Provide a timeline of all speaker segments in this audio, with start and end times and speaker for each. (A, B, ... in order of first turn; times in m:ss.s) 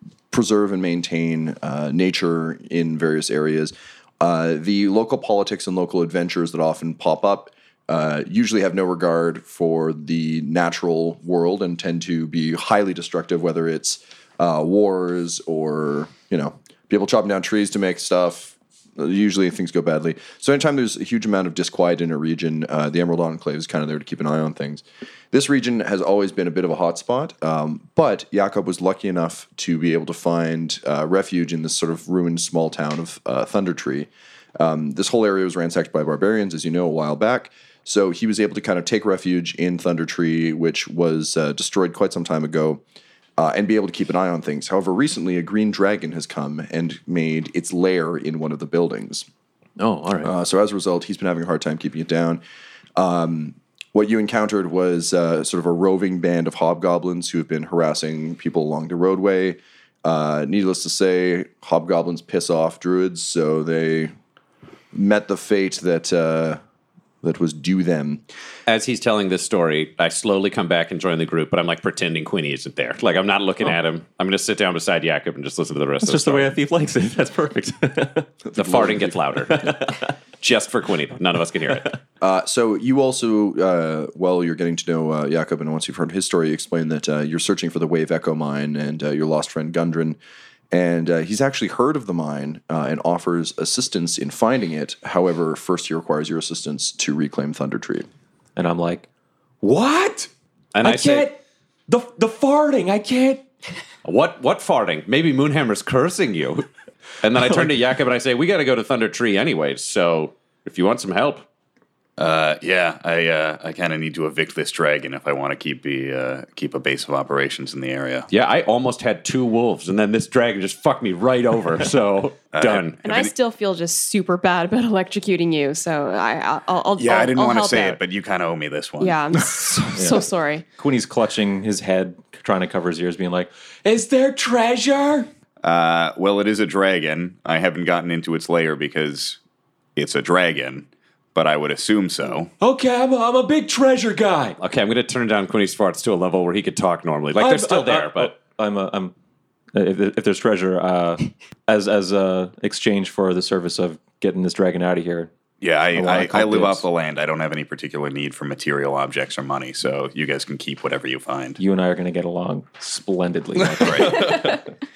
0:00.3-0:42.8 A
0:43.4-0:49.3 A
0:49.8-0:50.3 B
0:50.2-0:52.4 A
0:53.0-1:04.1 A
1:04.9-1:06.6 A
1:07.2-1:08.2 A
1:08.7-1:16.6 C
1:16.0-1:18.3 B
1:18.4-1:19.7 A
1:18.5-1:19.7 C
1:19.6-1:20.1 B
1:20.4-1:21.9 C
1:22.2-1:30.2 A
1:30.7-1:38.1 A
1:38.6-1:39.1 B
1:39.6-1:40.3 B
1:40.7-1:41.3 C
1:40.8-1:43.4 B
1:44.0-1:46.7 C
1:47.2-1:51.4 C
1:47.4-1:47.7 B
1:52.2-1:58.3 D
1:58.3-2:03.0 C
2:02.5-2:03.3 D
2:03.0-2:08.0 E
2:07.0-2:09.4 D
2:09.0-2:10.6 E
2:10.0-2:10.3 B
2:10.8-2:15.3 B
2:15.6-2:19.4 D
2:20.0-2:22.5 D
2:22.6-2:24.6 B
2:24.6-2:28.3 C
2:27.3-2:29.1 B
2:29.7-2:35.3 B
2:35.6-2:41.6 D
2:35.9-2:36.9 B
2:41.6-2:44.6 B
2:43.8-2:44.3 A
2:43.8-2:44.4 D